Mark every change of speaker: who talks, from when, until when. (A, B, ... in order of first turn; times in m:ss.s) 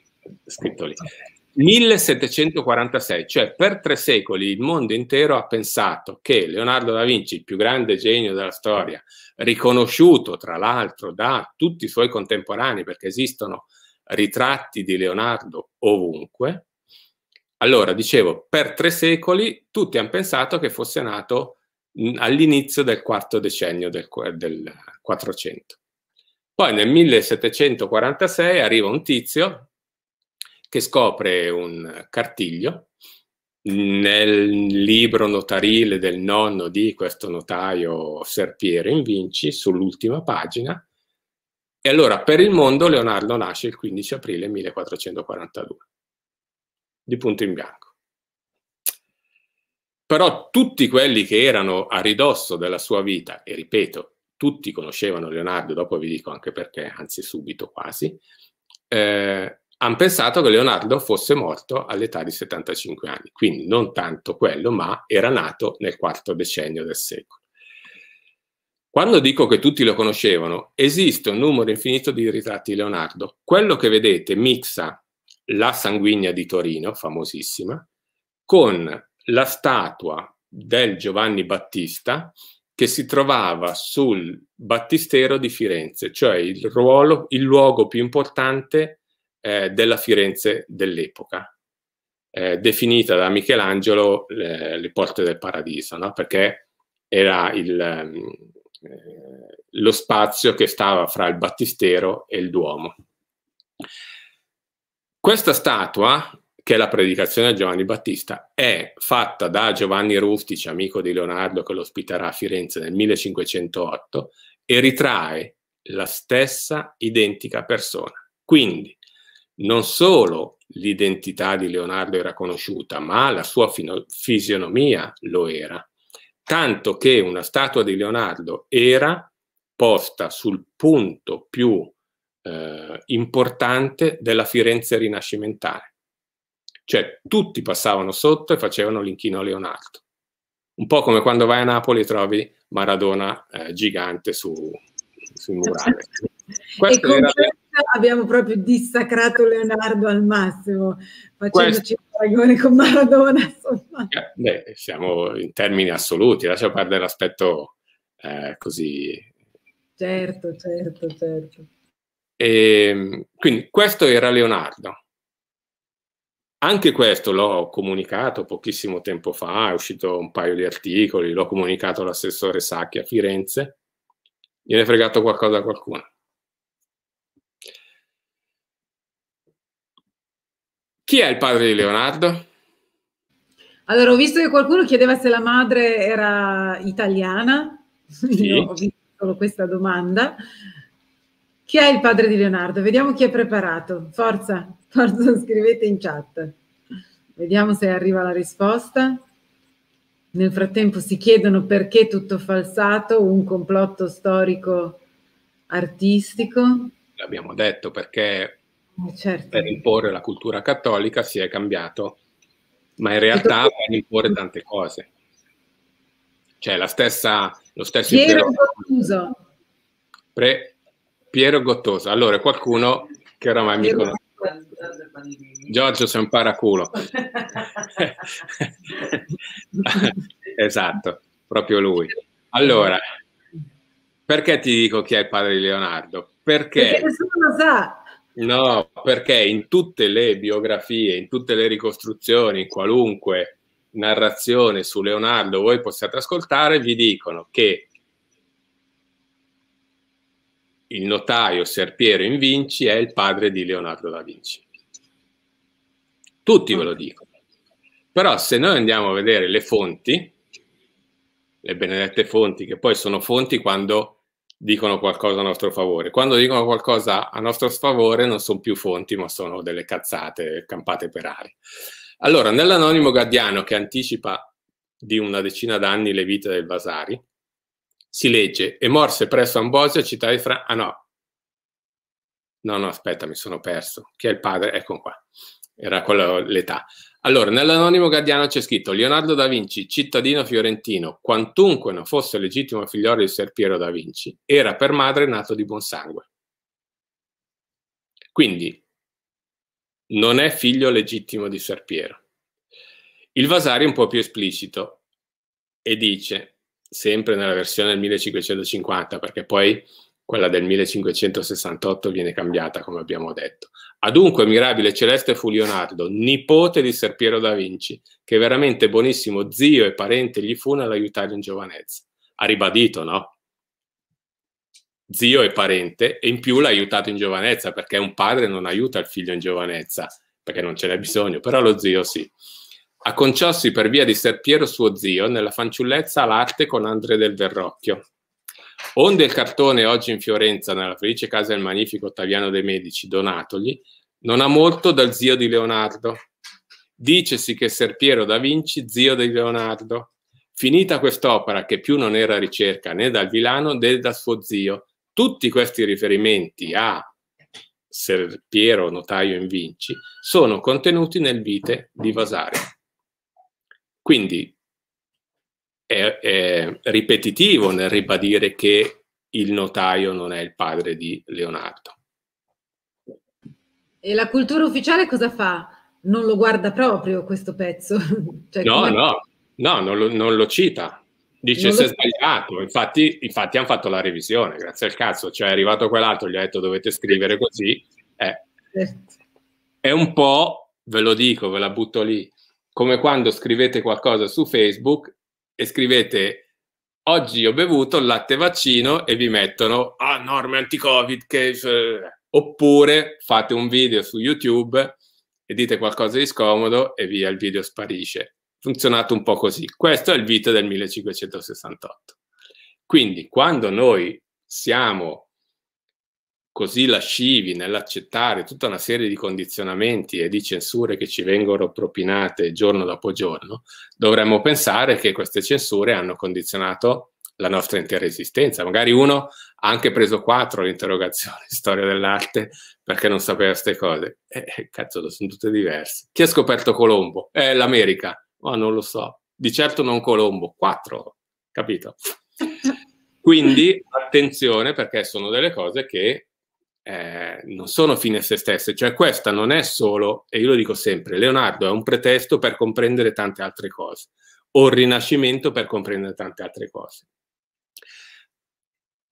0:00.5-0:16.7 A
0:17.6-0:25.8 A
0:26.6-0:29.7 A
0:30.7-0:32.9 A
0:33.6-0:40.8 A
0:41.8-0:45.8 A
0:47.1-0:47.9 A
0:50.1-0:58.2 A
0:58.9-1:07.4 A
1:08.9-1:17.9 A
1:18.5-1:31.5 A
1:32.3-1:43.0 A
1:45.2-1:59.0 A
1:59.6-2:05.9 A
2:06.5-2:15.9 A
2:16.9-2:20.0 A
2:20.8-2:24.8 A
2:25.4-2:26.2 A
2:26.8-2:27.5 A
2:26.8-2:34.1 B
2:31.5-2:31.8 A
2:34.1-2:39.3 A
2:40.0-2:41.7 B
2:42.4-2:45.0 A
2:46.6-2:53.8 A
2:54.7-2:56.1 A
3:01.1-3:02.4 A
3:03.9-3:10.4 B
3:08.4-3:08.7 A
3:11.7-3:16.6 B
3:17.4-3:19.2 B
3:20.3-3:25.0 B
3:25.7-3:26.9 B
3:27.2-3:28.6 A
3:29.0-3:29.8 B
3:29.5-3:32.2 A
3:33.0-3:35.1 A
3:33.3-3:33.6 B
3:36.6-3:38.7 A
3:38.1-3:39.4 B
3:40.4-3:40.8 A
3:41.3-3:44.2 A
3:43.8-3:44.5 B
3:45.7-3:47.1 A
3:48.0-3:48.7 A
3:49.8-3:53.0 A
3:54.3-3:57.1 A
3:56.8-3:58.0 B
3:58.4-4:07.9 A
4:10.9-4:14.6 A
4:16.4-4:17.3 A
4:18.1-4:20.3 A
4:21.6-4:31.6 A
4:32.2-4:37.2 A
4:38.1-4:41.0 A
4:42.6-4:45.2 A
4:45.8-4:56.3 A
4:58.3-4:58.8 A
5:00.1-5:02.2 A
5:03.4-5:05.0 A
5:05.8-5:23.4 A
5:25.1-5:32.3 A
5:33.0-5:38.1 A
5:39.0-5:46.2 A
5:47.0-5:57.1 A
5:57.9-6:02.7 A
6:04.0-6:04.6 A
6:05.9-6:12.0 A
6:14.0-6:19.0 B
6:18.6-6:28.4 A
6:21.6-6:21.9 B
6:28.7-6:29.1 B
6:29.8-6:36.5 A
6:37.1-6:45.0 A
6:45.5-6:52.2 A
6:52.9-6:55.3 A
6:56.5-7:22.0 A
7:23.2-7:26.3 A
7:26.8-7:37.0 A